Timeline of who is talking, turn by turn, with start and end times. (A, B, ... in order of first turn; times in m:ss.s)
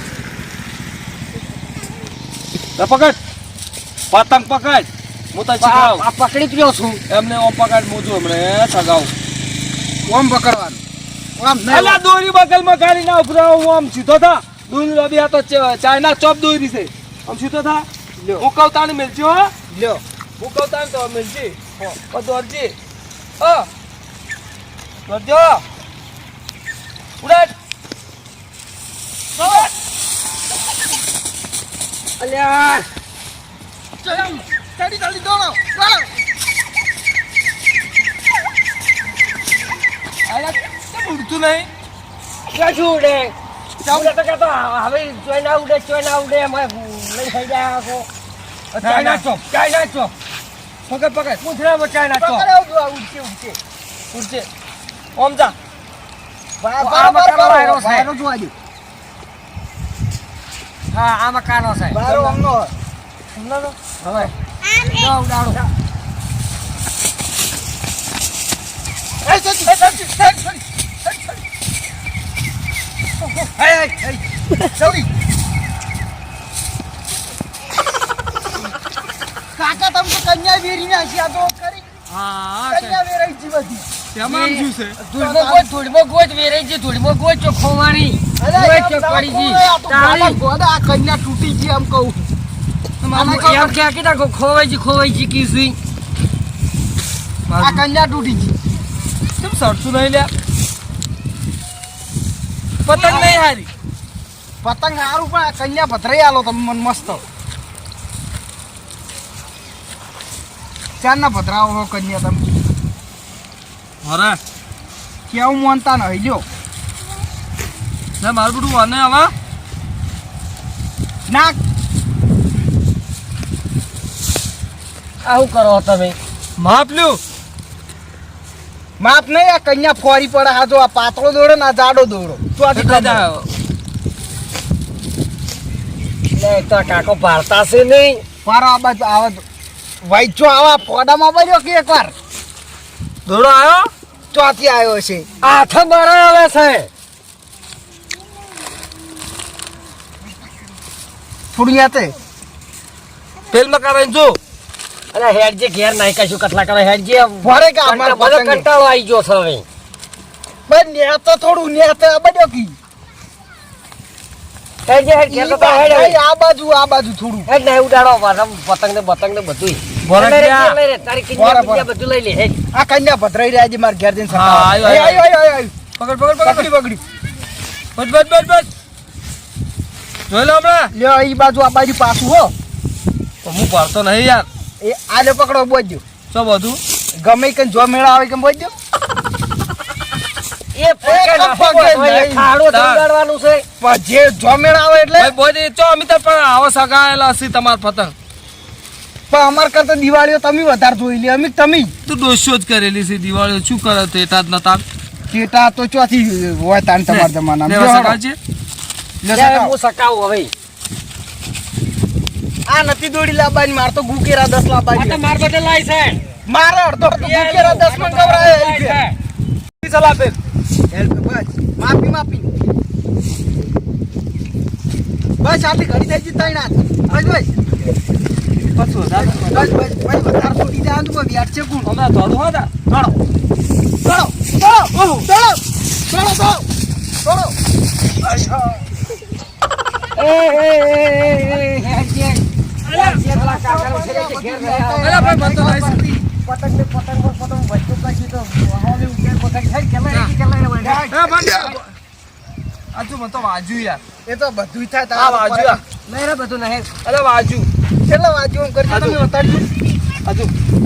0:02.8-0:03.2 A
0:04.1-0:06.0 A
0:05.6-0:07.0 B
0:07.1-0:09.1 A
0:10.1-0:10.8 C
0:11.4-0:12.0 C
0:11.7-0:17.8 A
0:18.2-0:18.5 C
0:18.4-0:19.5 A
0:19.7-0:20.0 C
0:20.4-0:22.8 A
0:23.4-0:23.7 A
0:25.1-0:25.6 A
0:27.2-0:27.5 A
0:32.2-0:32.9 B
0:34.0-0:36.1 C
0:40.3-0:41.7 A
0:42.5-0:43.4 B
0:43.8-0:44.1 C
0:43.9-0:48.1 B
0:48.7-0:50.1 B
0:48.8-0:49.2 A
0:50.9-0:51.4 A
0:51.4-0:52.5 B
0:52.2-0:53.6 C
0:54.1-0:54.5 A
0:55.2-0:55.6 A
0:56.6-0:58.5 C
0:56.8-0:58.1 B
1:00.9-1:02.4 B
1:01.9-1:02.7 C
1:03.3-1:05.6 B
1:09.2-1:09.7 C
1:09.8-1:10.1 A
1:13.4-1:15.1 C
1:19.6-1:21.8 C
1:22.1-1:23.0 A
1:22.7-1:23.9 C
1:24.2-1:25.0 A
1:24.2-1:30.4 B
1:25.0-1:25.7 C
1:28.4-1:32.3 C
1:33.0-1:33.8 A
1:33.1-1:33.7 C
1:33.2-1:35.8 B
1:37.5-1:37.8 A
1:37.6-1:38.5 C
1:39.4-1:40.3 A
1:42.9-1:43.7 A
1:43.0-1:43.4 C
1:44.6-1:47.2 C
1:51.0-1:52.7 C
1:54.0-1:54.4 A
1:55.3-1:56.4 C
1:58.2-1:59.3 A
2:01.3-2:01.6 C
2:05.2-2:06.2 B
2:06.6-2:07.2 A
2:09.0-2:13.3 C
2:12.7-2:13.5 A
2:16.3-2:18.2 B
2:18.4-2:19.4 C
2:20.0-2:22.1 C
2:23.3-2:23.9 A
2:24.3-2:25.3 C
2:25.4-2:26.9 B
2:31.5-2:32.1 C
2:33.5-2:34.4 A
2:35.1-2:39.6 B
2:37.4-2:38.6 C
2:40.7-2:42.8 C
2:44.9-2:46.2 B
2:45.3-2:47.5 C
2:47.5-2:52.6 B
2:50.0-2:50.8 A
2:51.4-2:51.9 C
2:52.7-2:55.7 C
2:54.3-2:55.2 A
2:56.0-2:56.7 A
2:56.4-2:57.0 C
2:58.0-2:58.7 A
3:00.3-3:00.9 A
3:00.9-3:02.5 C
3:03.4-3:04.5 A
3:04.8-3:06.0 C
3:06.3-3:06.8 A
3:07.2-3:08.7 C
3:10.7-3:13.6 B
3:11.0-3:12.5 C
3:12.7-3:13.0 A
3:13.8-3:15.3 C
3:15.2-3:18.1 A
3:19.3-3:21.9 C
3:22.1-3:24.8 A
3:25.3-3:28.2 C
3:27.1-3:28.4 A
3:29.2-3:29.8 C
3:29.3-3:30.5 B
3:32.7-3:35.2 C
3:34.9-3:36.2 B
3:36.5-3:39.0 C
3:37.2-3:39.2 B
3:39.8-3:40.4 A
3:40.9-3:42.5 C
3:45.4-3:47.5 C
3:48.6-3:49.7 A
3:49.2-3:51.9 C
3:51.8-3:52.9 A
3:54.0-3:54.7 C
3:54.8-3:55.3 A
3:55.2-3:56.7 C
3:57.2-3:57.6 C
4:00.2-4:05.8 B
4:02.8-4:03.2 A
4:02.9-4:06.3 C
4:05.0-4:06.1 A
4:06.4-4:11.1 B
4:10.8-4:11.4 C
4:11.1-4:11.9 A
4:12.9-4:14.0 A
4:14.3-4:15.8 C
4:15.1-4:15.8 A
4:16.1-4:16.9 B
4:17.0-4:17.7 A
4:18.1-4:19.7 C
4:18.9-4:19.2 A
4:20.2-4:20.5 A